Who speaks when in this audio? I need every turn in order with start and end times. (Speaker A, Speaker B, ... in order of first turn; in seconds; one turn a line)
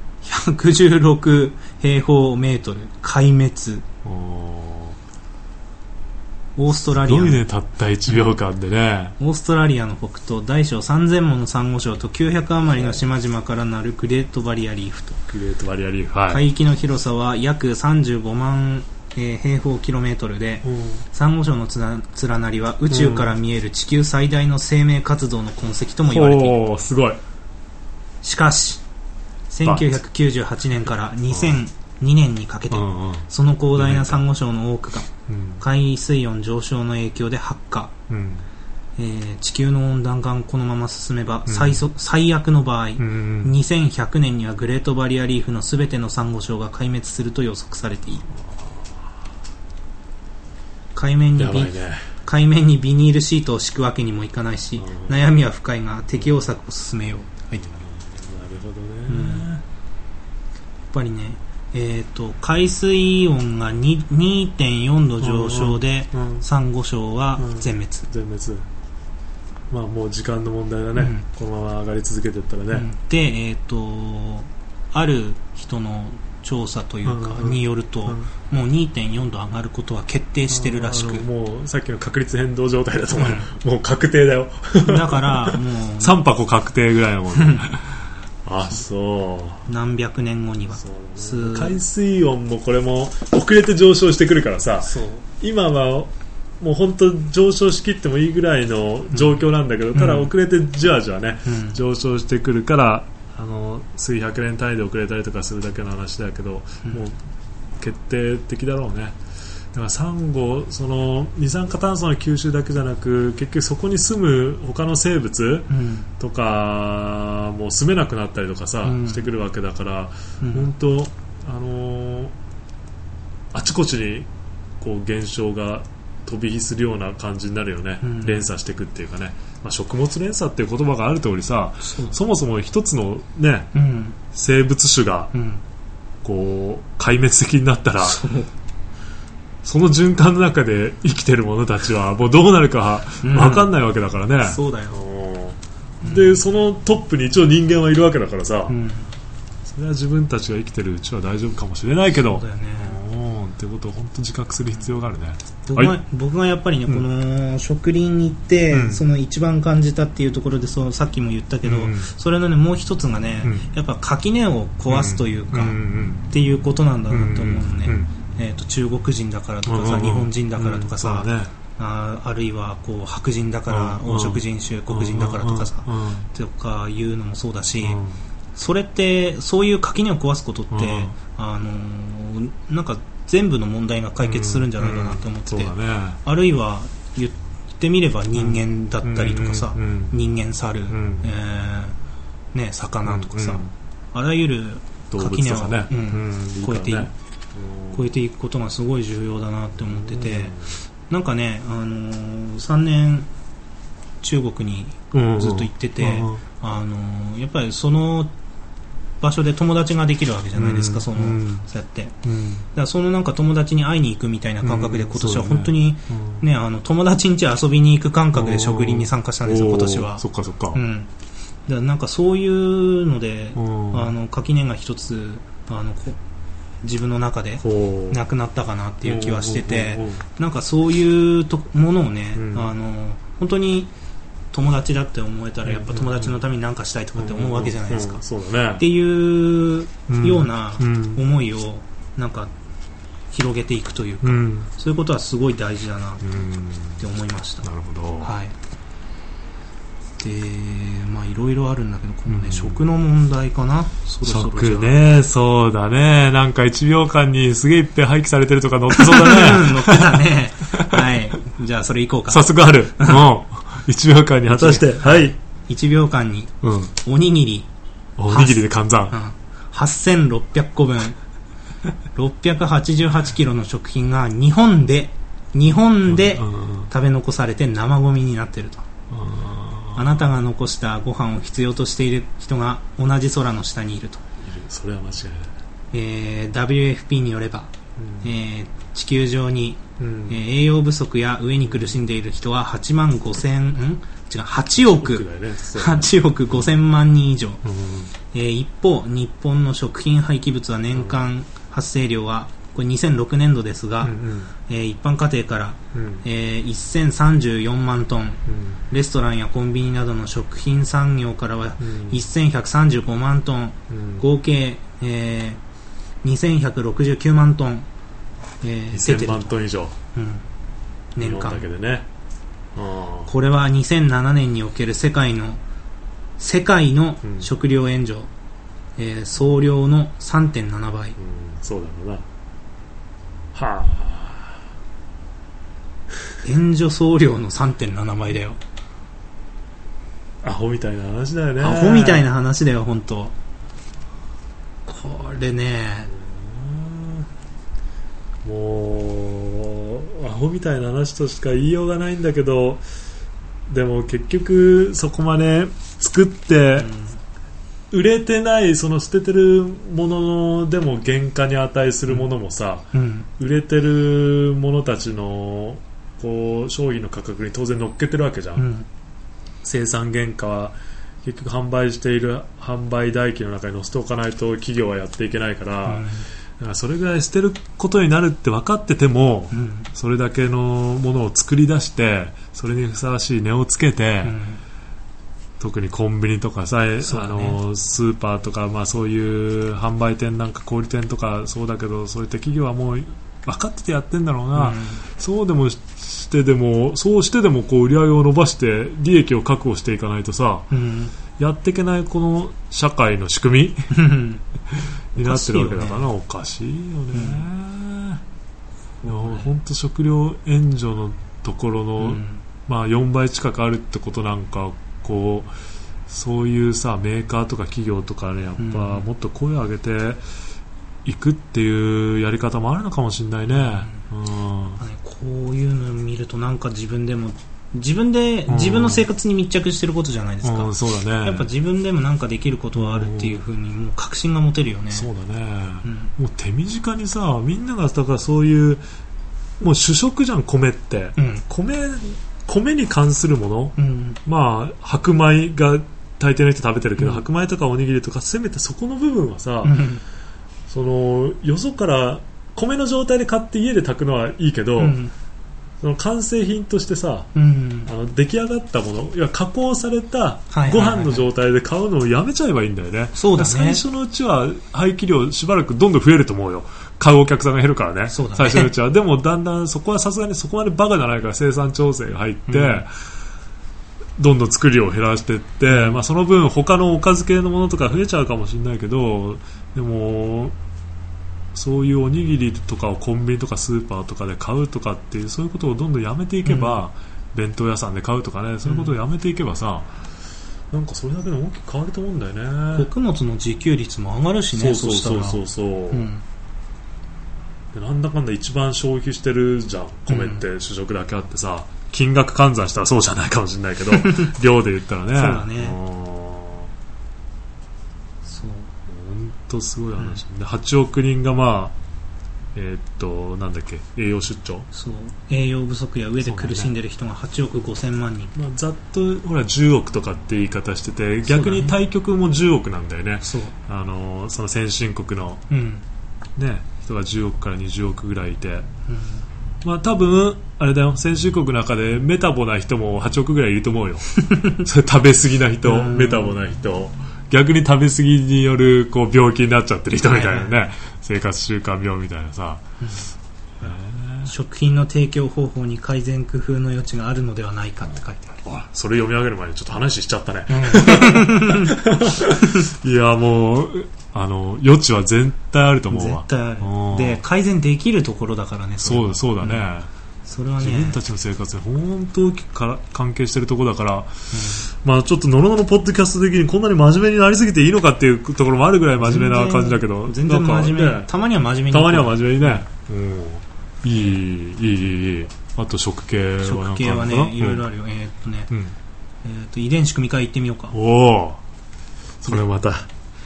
Speaker A: 0.2-3.9
Speaker B: 4.0-5.0
Speaker A: 6.6-7.4
Speaker B: 6.7-9.1
Speaker A: 9.2-15.2
Speaker B: 15.3-16.4
Speaker A: 16.3-26.6
Speaker B: 20.6-21.0
Speaker B: 22.9-23.3
Speaker B: 26.1-27.2
Speaker A: 28.2-28.8
Speaker A: 29.5-37.9
Speaker B: 29.6-30.0
Speaker B: 31.3-31.6
Speaker B: 32.7-34.2
Speaker B: 35.3-35.6
Speaker B: 38.1-38.4
Speaker A: 39.0-48.3
Speaker B: 41.5-41.8
Speaker B: 43.0-43.5
Speaker B: 48.3-49.1
Speaker A: 50.9-57.6
Speaker B: 51.4-52.1
Speaker B: 54.8-55.3
Speaker B: 57.6-59.6
Speaker A: 59.1-59.5
Speaker A: 60.9-68.1
Speaker B: 65.2-66.5
Speaker B: 67.4-68.7
Speaker B: 69.7-72.9
Speaker A: 70.9-71.2
Speaker A: 72.7-81.3
Speaker B: 77.0-78.3
Speaker B: 80.5-89.7
Speaker A: 83.2-83.5
Speaker A: 84.8-86.2
Speaker A: 87.4-87.6
Speaker A: 89.7-91.8
Speaker B: 90.8-107.2
Speaker A: 94.8-95.3
Speaker A: 99.9-100.3
Speaker A: 101.5-101.8
Speaker B: 107.8-109.2
Speaker B: 109.7-122.3
Speaker A: 115.7-116.1
Speaker A: 118.8-119.3
Speaker A: 120.4-120.7
Speaker B: 123.5-124.3
Speaker B: 124.8-133.7
Speaker A: 128.0-128.5
Speaker A: 131.8-132.2
Speaker A: 133.7-134.2
Speaker B: 134.3-135.3
Speaker A: 135.3-135.6
Speaker B: 136.2-138.2
Speaker A: 138.0-138.5
Speaker B: 139.6-148.7
Speaker A: 143.2-143.7
Speaker A: 144.4-145.0
Speaker A: 146.0-146.4
Speaker A: 148.7-149.1
Speaker B: 149.7-156.0
Speaker A: 152.3-153.0
Speaker A: 155.7-165.8
Speaker B: 158.7-159.0
Speaker B: 161.6-162.1
Speaker B: 164.9-166.3
Speaker A: 166.3-178.0
Speaker B: 167.1-168.1
Speaker B: 169.7-171.5
Speaker B: 173.7-176.3
Speaker B: 177.8-178.2
Speaker A: 178.6-192.0
Speaker B: 180.7-181.1
Speaker B: 184.2-186.2
Speaker B: 188.3-190.2
Speaker B: 190.9-191.3
Speaker A: 192.5-197.1
Speaker B: 193.1-193.7
Speaker B: 195.1-198.1
Speaker A: 197.9-200.6
Speaker B: 199.8-200.8
Speaker A: 201.1-203.3
Speaker A: 204.2-208.3
Speaker B: 205.1-206.4
Speaker A: 209.2-212.2
Speaker B: 210.6-211.7
Speaker B: 212.2-212.7
Speaker A: 212.7-221.1
Speaker B: 214.6-216.4
Speaker B: 218.3-220.8
Speaker A: 221.7-226.2
Speaker B: 223.6-224.1
Speaker A: 226.8-233.9
Speaker B: 227.6-228.2
Speaker B: 229.1-230.2
Speaker B: 232.4-232.7
Speaker A: 234.5-238.2
Speaker B: 235.6-236.4
Speaker B: 237.2-238.8
Speaker A: 238.8-242.5
Speaker B: 240.1-241.2
Speaker A: 243.3-246.4
Speaker B: 244.2-244.7
Speaker B: 246.2-247.1
Speaker A: 247.0-247.7
Speaker B: 247.6-248.3
Speaker A: 248.2-248.6
Speaker A: 250.2-255.0
Speaker B: 252.3-252.8
Speaker B: 254.2-261.2
Speaker A: 258.9-263.3
Speaker B: 262.3-265.4
Speaker A: 264.5-267.7
Speaker B: 266.6-266.9
Speaker B: 268.2-269.1
Speaker A: 268.3-271.2
Speaker A: 272.1-278.9
Speaker B: 276.1-276.9
Speaker B: 279.1-280.2
Speaker A: 279.9-284.2
Speaker B: 284.4-285.5
Speaker A: 285.9-297.6
Speaker B: 288.0-288.3
Speaker B: 290.0-290.4
Speaker B: 291.6-292.0
Speaker B: 294.8-296.7
Speaker B: 297.6-298.1
Speaker A: 298.3-304.1
Speaker B: 300.9-301.2
Speaker B: 304.0-304.5
Speaker A: 304.7-315.6
Speaker B: 305.9-306.2
Speaker B: 308.5-308.8
Speaker B: 311.8-312.2
Speaker B: 313.9-314.2
Speaker A: 316.2-317.9
Speaker A: 318.6-319.6
Speaker B: 318.9-319.9
Speaker A: 320.1-320.4
Speaker A: 321.1-321.7
Speaker B: 321.2-322.1
Speaker B: 322.7-323.3
Speaker A: 323.3-325.6
Speaker A: 326.4-328.3
Speaker B: 327.2-327.5
Speaker A: 329.0-331.2
Speaker B: 331.2-332.3
Speaker B: 333.5-334.6
Speaker A: 336.4-338.6
Speaker B: 340.4-342.3
Speaker A: 341.6-343.3
Speaker A: 344.9-346.1
Speaker B: 346.1-347.3
Speaker B: 348.4-352.8
Speaker B: 353.7-356.9
Speaker A: 356.8-357.2
Speaker B: 357.9-368.7
Speaker A: 362.9-363.3
Speaker A: 368.6-368.9
Speaker B: 369.6-376.1
Speaker A: 375.9-376.3
Speaker B: 376.6-384.4
Speaker A: 379.5-379.9
Speaker A: 384.2-384.6
Speaker B: 385.6-400.7
Speaker A: 387.0-387.6
Speaker A: 394.6-395.0
Speaker A: 400.7-401.1
Speaker B: 401.4-403.9
Speaker A: 403.9-404.4
Speaker B: 405.1-408.2
Speaker A: 405.2-406.1
Speaker A: 407.1-407.5
Speaker A: 409.0-409.5
Speaker B: 409.1-415.5
Speaker A: 412.0-412.4
Speaker B: 416.1-420.2
Speaker A: 418.6-419.1
Speaker B: 421.1-424.8
Speaker A: 423.5-424.1
Speaker A: 424.8-435.1
Speaker B: 428.5-429.1
Speaker B: 430.4-431.5
Speaker B: 432.7-433.4
Speaker B: 434.9-438.8
Speaker A: 435.8-436.1
Speaker B: 439.6-449.8
Speaker A: 441.2-441.4
Speaker A: 443.8-444.2
Speaker A: 447.0-447.2
Speaker A: 449.6-450.0
Speaker B: 450.7-455.0
Speaker A: 454.8-455.1
Speaker B: 455.8-457.3
Speaker A: 457.4-457.9
Speaker B: 457.9-472.9
Speaker A: 460.5-461.3
Speaker A: 463.1-463.8
Speaker A: 468.1-468.7
Speaker A: 472.5-472.9
Speaker B: 474.2-480.6
Speaker A: 475.7-476.0
Speaker B: 481.5-489.9
Speaker A: 486.4-486.8
Speaker A: 488.6-488.9
Speaker B: 490.7-492.9
Speaker A: 492.7-496.2
Speaker B: 494.5-496.1
Speaker B: 497.7-506.7
Speaker A: 500.1-500.4
Speaker A: 503.9-504.3
Speaker A: 505.1-505.8
Speaker A: 508.2-508.7
Speaker B: 508.9-511.7
Speaker B: 512.5-514.7
Speaker A: 514.7-518.3
Speaker B: 516.2-516.7
Speaker B: 518.3-525.4
Speaker A: 521.3-521.7
Speaker A: 523.2-523.5
Speaker A: 525.5-525.8
Speaker B: 526.4-528.7
Speaker A: 528.9-529.2
Speaker B: 529.6-542.6
Speaker A: 534.1-534.6
Speaker A: 535.6-536.4
Speaker A: 540.0-540.6
Speaker A: 542.8-543.1
Speaker B: 543.6-544.3
Speaker A: 544.2-548.4
Speaker B: 548.4-557.2
Speaker A: 550.5-552.6
Speaker A: 555.9-559.7
Speaker B: 558.8-559.9
Speaker A: 560.3-561.0
Speaker B: 560.6-571.1
Speaker A: 564.3-564.7
Speaker A: 569.0-572.6
Speaker B: 571.7-577.7
Speaker A: 576.4-578.5
Speaker A: 579.2-580.8
Speaker B: 580.7-581.4
Speaker B: 582.2-582.9